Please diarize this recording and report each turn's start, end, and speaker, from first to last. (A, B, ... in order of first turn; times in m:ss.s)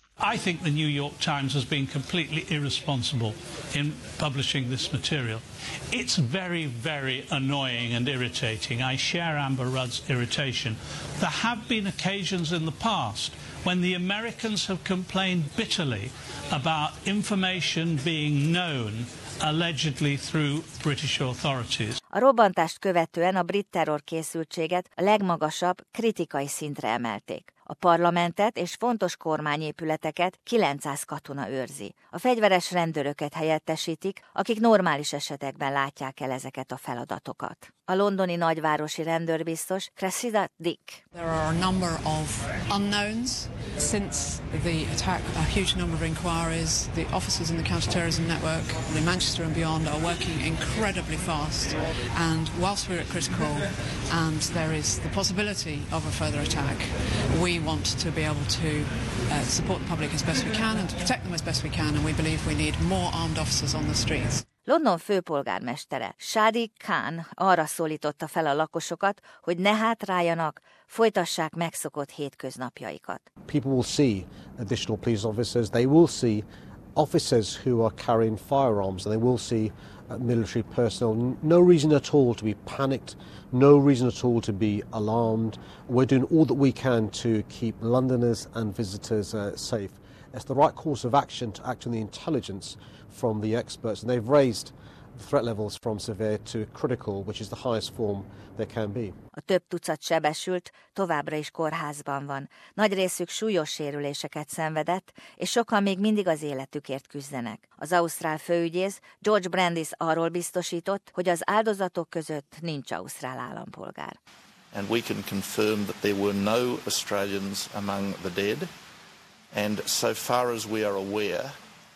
0:00.2-0:22.0 A
0:22.1-0:41.0 B
0:41.1-1:04.4 C
1:04.7-1:13.3 B
1:13.5-1:16.4 D
1:17.0-1:39.2 D
1:39.4-1:54.2 B
1:54.7-1:58.7 E
1:59.5-2:01.5 E